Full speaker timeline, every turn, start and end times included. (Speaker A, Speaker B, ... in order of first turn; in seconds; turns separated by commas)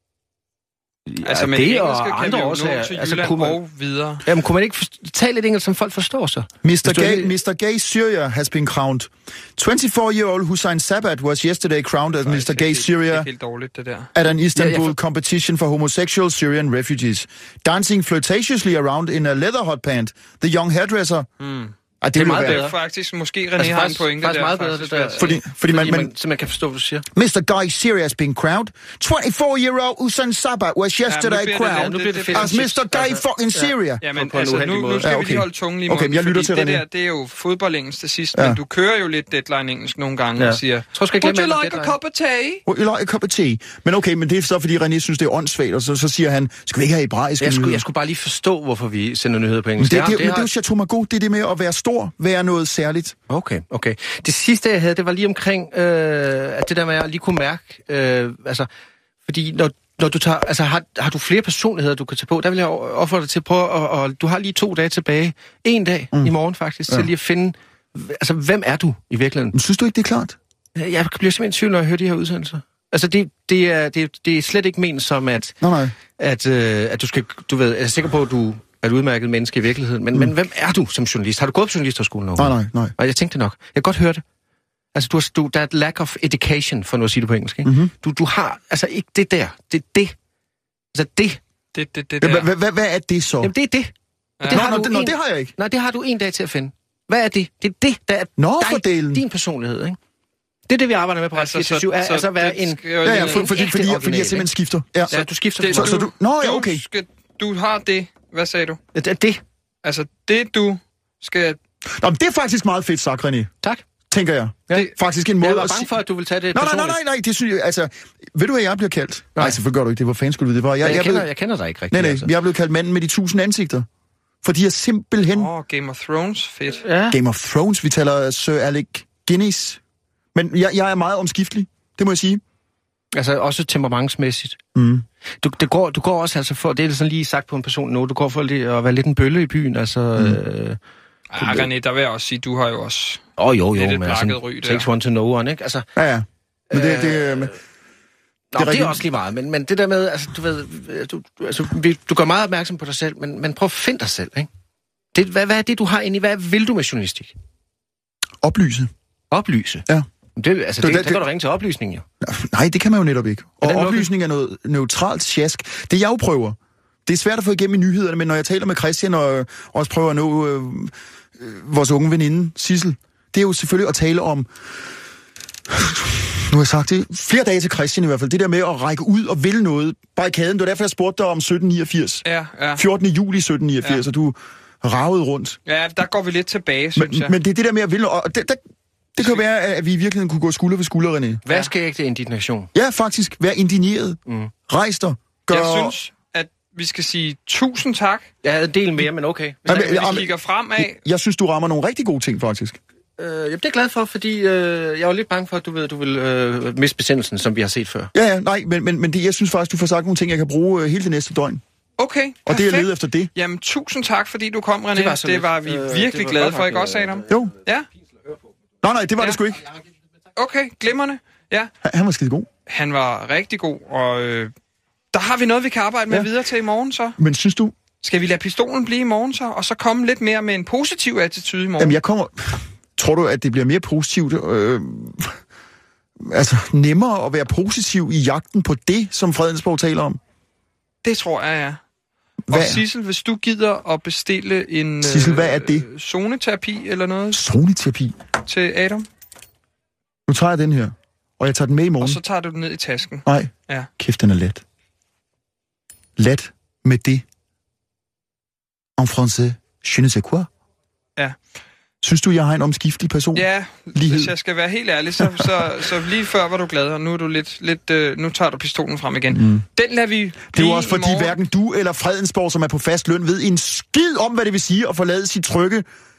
Speaker A: 1.1-3.6, Speaker B: 1.2-4.2, Speaker A: 4.2-7.3, Speaker C: 6.6-13.3, Speaker B: 12.2-14.1, Speaker C: 14.1-21.3, Speaker A: 14.5-14.9, Speaker B: 21.4-21.7, Speaker C: 22.0-22.7, Speaker A: 22.1-22.8, Speaker B: 22.2-25.3, Speaker A: 23.6-27.1, Speaker C: 25.2-26.1, Speaker C: 27.1-34.0, Speaker B: 31.1-32.6, Speaker A: 31.6-35.1, Speaker B: 34.0-42.6, Speaker C: 35.0-36.8, Speaker C: 38.3-38.6, Speaker A: 40.4-41.9, Speaker C: 42.6-47.8, Speaker A: 47.4-50.5, Speaker C: 49.8-53.1, Speaker A: 53.3-58.7, Speaker A: 59.2-69.5, Speaker C: 69.5-70.4, Speaker A: 70.8-75.6, Speaker C: 75.6-75.9, Speaker A: 76.1-84.2, Speaker C: 82.4-82.9, Speaker A: 84.9-90.1, Speaker C: 87.6-87.9, Speaker A: 90.9-91.4, Speaker B: 91.7-92.5, Speaker C: 92.2-93.5, Speaker A: 93.4-93.9, Speaker B: 94.4-94.9, Speaker A: 94.4-100.0, Speaker C: 94.5-95.5, Speaker C: 98.4-99.2, Speaker A: 100.7-104.5, Speaker B: 101.3-103.7, Speaker C: 103.0-105.1, Speaker A: 105.1-106.0, Speaker B: 105.1-108.8, Speaker C: 105.7-106.8, Speaker A: 108.9-109.4, Speaker B: 109.8-111.6, Speaker C: 111.8-113.5, Speaker C: 114.1-115.9, Speaker A: 114.7-117.0, Speaker C: 116.5-121.3, Speaker A: 120.8-122.3, Speaker C: 121.9-123.9, Speaker C: 124.4-125.5, Speaker B: 125.3-126.8, Speaker A: 126.8-127.2, Speaker C: 127.1-129.8, Speaker C: 130.3-132.4, Speaker A: 133.1-134.6, Speaker C: 134.7-135.0, Speaker A: 135.4-140.8, Speaker B: 141.3-143.2, Speaker A: 141.4-141.7, Speaker A: 143.4-145.9, Speaker B: 143.7-144.8, Speaker C: 145.9-147.5, Speaker A: 146.7-147.5, Speaker A: 148.5-154.5, Speaker C: 148.5-149.0, Speaker A: 155.1-157.3, Speaker C: 158.4-158.9, Speaker A: 159.3-162.1, Speaker C: 160.8-161.2, Speaker C: 162.2-174.5, Speaker A: 163.6-164.1, Speaker C: 175.7-182.2, Speaker B: 182.2-182.8, Speaker C: 182.8-185.6, Speaker B: 185.7-187.3, Speaker C: 186.9-188.6, Speaker C: 189.1-191.4, Speaker A: 191.4-192.7, Speaker C: 192.7-196.0, Speaker A: 194.3-194.5, Speaker B: 195.5-198.3, Speaker A: 198.4-200.2, Speaker B: 199.7-201.0, Speaker C: 199.7-202.8, Speaker A: 203.2-208.1, Speaker C: 208.1-211.6, Speaker B: 212.0-217.8, Speaker C: 212.4-213.3, Speaker A: 214.9-217.3, Speaker C: 218.8-219.6, Speaker B: 220.3-221.7, Speaker C: 221.8-222.5, Speaker B: 222.7-224.5, Speaker B: 225.1-227.2, Speaker C: 227.2-227.7, Speaker B: 228.0-232.0, Speaker C: 231.8-235.4, Speaker C: 236.2-240.2, Speaker B: 241.0-241.8, Speaker C: 242.5-242.8, Speaker B: 242.5-247.4, Speaker C: 245.0-245.8, Speaker C: 247.3-248.2, Speaker B: 248.4-249.1, Speaker C: 250.3-252.2, Speaker B: 252.0-253.9, Speaker C: 253.2-254.6, Speaker C: 256.2-257.2, Speaker C: 259.0-260.5, Speaker C: 262.0-264.3, Speaker B: 263.3-271.4, Speaker C: 269.3-269.6, Speaker C: 270.5-275.9